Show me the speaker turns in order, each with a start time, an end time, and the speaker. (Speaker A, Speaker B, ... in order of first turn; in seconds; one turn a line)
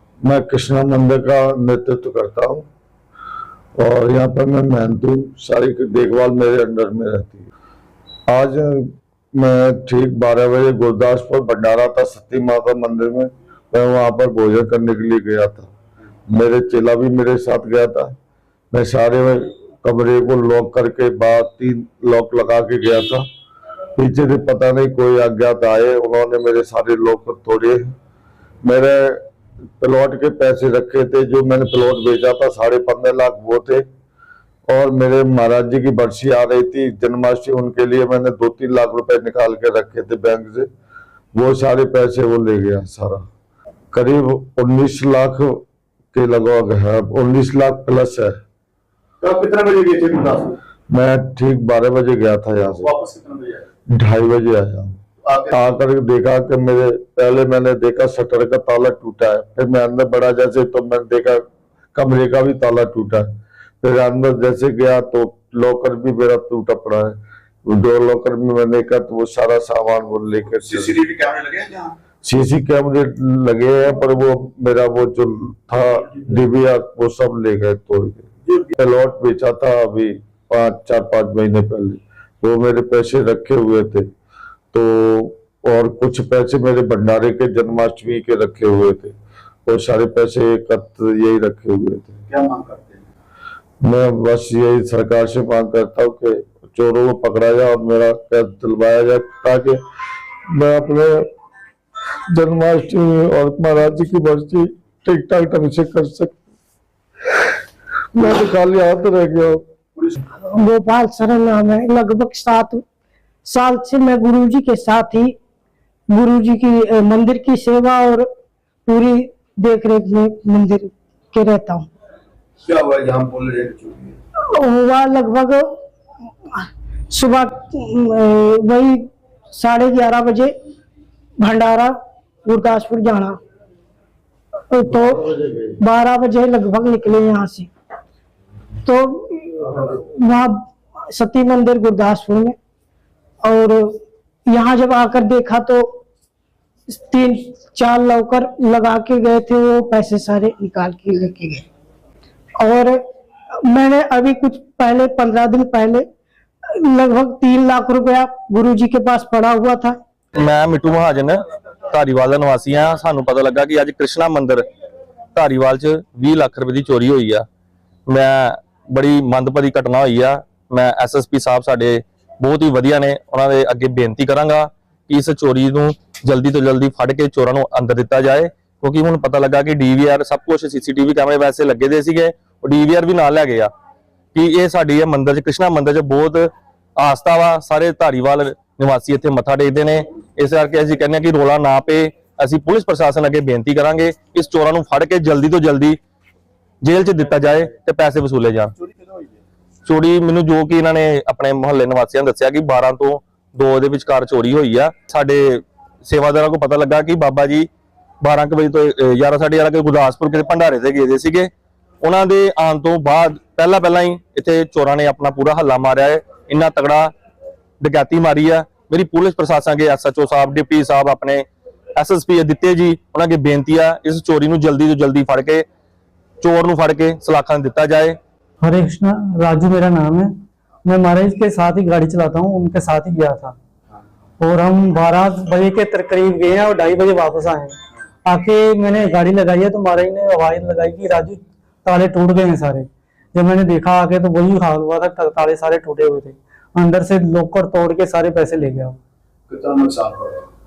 Speaker A: 0.2-2.6
Speaker A: 3.8-7.5
Speaker A: 8.3-15.7
Speaker A: 16.3-18.1
Speaker A: 18.7-23.3
Speaker A: 24.0-27.9
Speaker A: 28.6-29.2
Speaker A: 29.8-33.9
Speaker A: 34.7-40.7
Speaker A: 41.3-43.2
Speaker A: 43.9-45.6
Speaker A: 46.1-48.4
Speaker B: 49.2-50.6
Speaker A: 50.9-52.9
Speaker B: 52.8-53.6
Speaker A: 53.9-61.4
Speaker B: 55.3-55.6
Speaker A: 62.0-71.0
Speaker B: 70.8-71.9
Speaker A: 72.2-84.1
Speaker B: 78.5-78.7
Speaker A: 84.7-92.2
Speaker B: 92.3-93.0
Speaker A: 93.8-99.8
Speaker A: 100.5-101.3
Speaker A: 102.3-106.5
Speaker A: 108.2-109.7
Speaker C: 110.4-112.8
Speaker C: 113.5-115.3
Speaker C: 116.1-118.3
Speaker C: 118.9-121.9
Speaker B: 122.7-124.2
Speaker C: 124.5-125.7
Speaker C: 126.5-130.5
Speaker C: 131.4-131.9
Speaker C: 132.4-133.4
Speaker C: 134.7-135.2
Speaker A: 134.9-135.8
Speaker C: 135.8-137.7
Speaker C: 138.8-140.6
Speaker C: 141.1-142.6
Speaker C: 143.4-143.9
Speaker C: 144.5-145.9
Speaker C: 146.9-151.7
Speaker C: 152.6-153.0
Speaker C: 153.7-156.1
Speaker C: 156.7-160.0
Speaker D: 160.4-161.4
Speaker D: 161.9-164.7
Speaker D: 165.3-167.5
Speaker D: 168.1-183.7
Speaker D: 184.3-196.0
Speaker D: 196.8-198.7
Speaker B: 198.8-199.3
Speaker D: 199.9-207.7
Speaker D: 208.2-211.5
Speaker D: 212.0-217.1
Speaker D: 217.8-225.7
Speaker D: 226.4-228.2
Speaker E: 228.6-230.3
Speaker E: 230.8-233.6
Speaker E: 234.4-249.0
Speaker B: 249.5-250.4